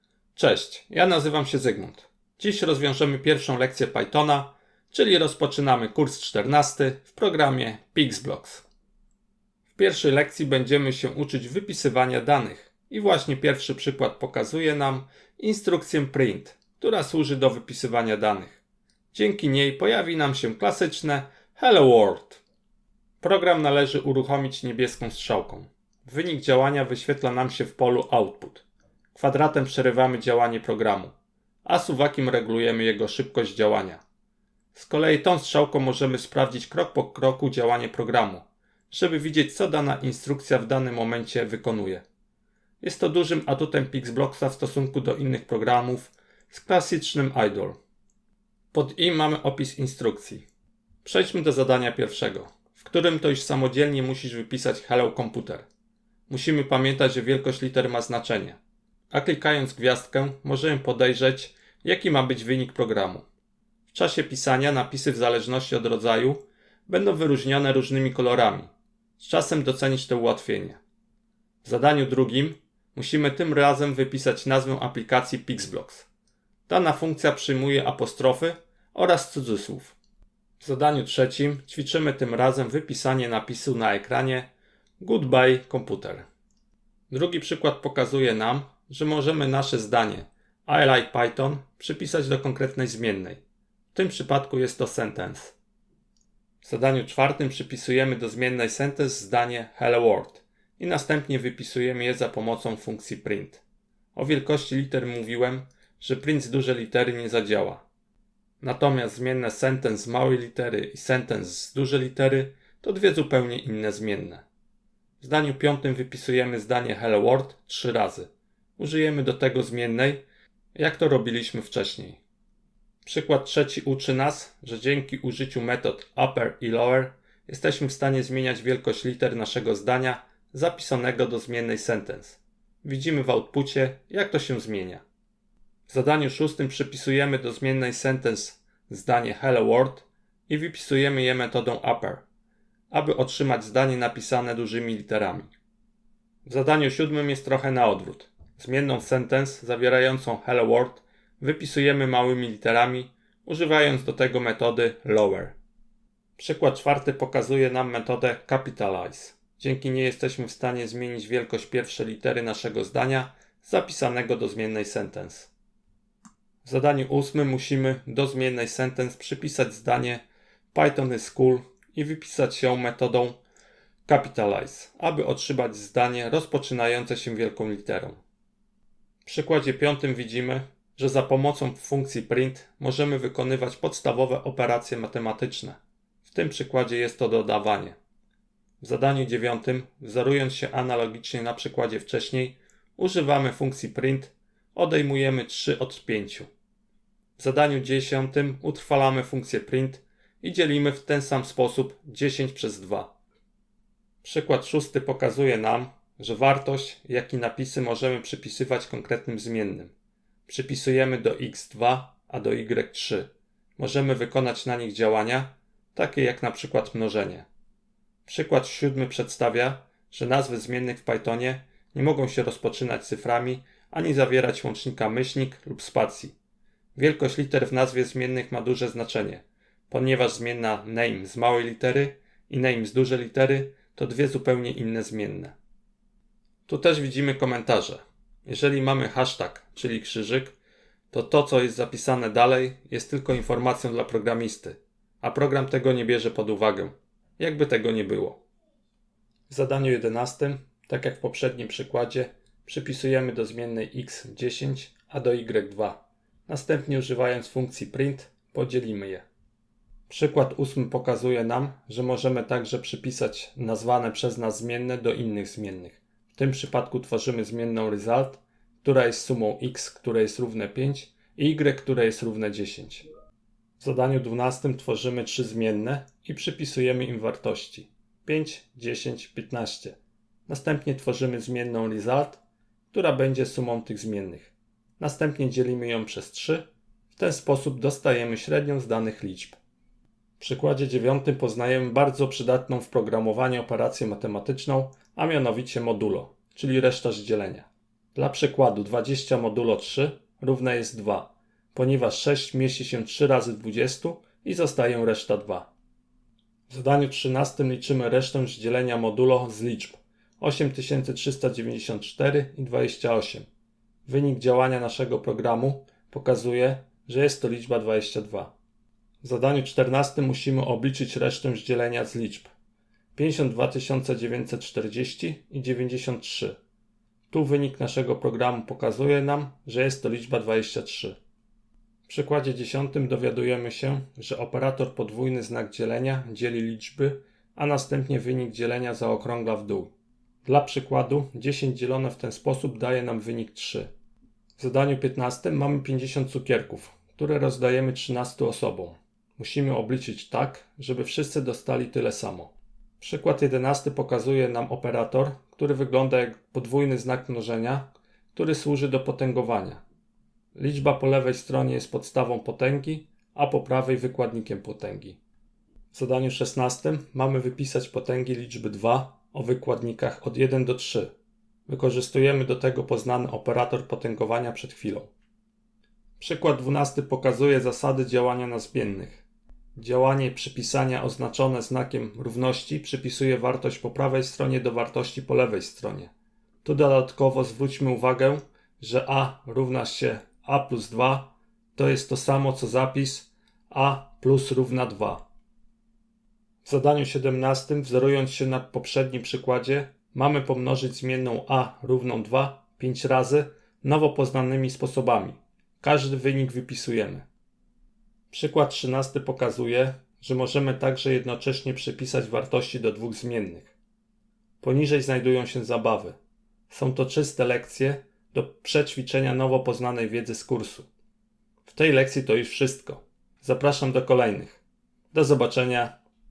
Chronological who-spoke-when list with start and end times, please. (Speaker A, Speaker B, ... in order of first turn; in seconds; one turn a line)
Speaker A: 0.3-8.6
Speaker A: 9.7-18.6
Speaker A: 19.1-22.4
Speaker A: 23.2-31.1
Speaker A: 31.6-34.0
Speaker A: 34.7-42.0
Speaker A: 42.8-47.8
Speaker A: 48.7-50.5
Speaker A: 51.0-55.7
Speaker A: 56.3-63.2
Speaker A: 63.9-70.8
Speaker A: 71.6-76.1
Speaker A: 76.7-80.0
Speaker A: 80.6-86.3
Speaker A: 87.1-93.4
Speaker A: 93.9-95.5
Speaker A: 96.6-103.6
Speaker A: 104.1-107.8
Speaker A: 108.6-114.4
Speaker A: 115.2-120.2
Speaker A: 120.7-122.2
Speaker A: 123.0-135.0
Speaker A: 135.9-142.2
Speaker A: 142.9-145.5
Speaker A: 146.4-155.6
Speaker A: 156.4-165.5
Speaker A: 166.6-173.4
Speaker A: 174.1-178.2
Speaker A: 179.2-188.0
Speaker A: 188.8-196.5
Speaker A: 197.4-203.1
Speaker A: 204.2-209.9
Speaker A: 210.5-217.5
Speaker A: 218.2-226.3
Speaker A: 226.9-235.5
Speaker A: 236.7-240.6
Speaker A: 241.1-248.4
Speaker A: 249.5-259.2
Speaker A: 260.1-273.0
Speaker A: 273.8-282.4
Speaker A: 282.9-289.6
Speaker A: 290.4-305.7
Speaker A: 306.7-313.5
Speaker A: 314.1-318.5
Speaker A: 319.2-322.5
Speaker A: 323.1-326.6
Speaker A: 327.3-331.2
Speaker A: 332.1-339.9
Speaker A: 340.4-343.9
Speaker A: 344.6-359.8
Speaker A: 360.5-365.2
Speaker A: 365.9-371.1
Speaker A: 371.7-375.1
Speaker A: 376.2-386.1
Speaker A: 386.6-395.2
Speaker A: 396.6-407.2
Speaker A: 408.3-413.7
Speaker A: 414.6-416.2
Speaker A: 416.7-420.9
Speaker A: 421.6-424.6
Speaker A: 425.1-426.0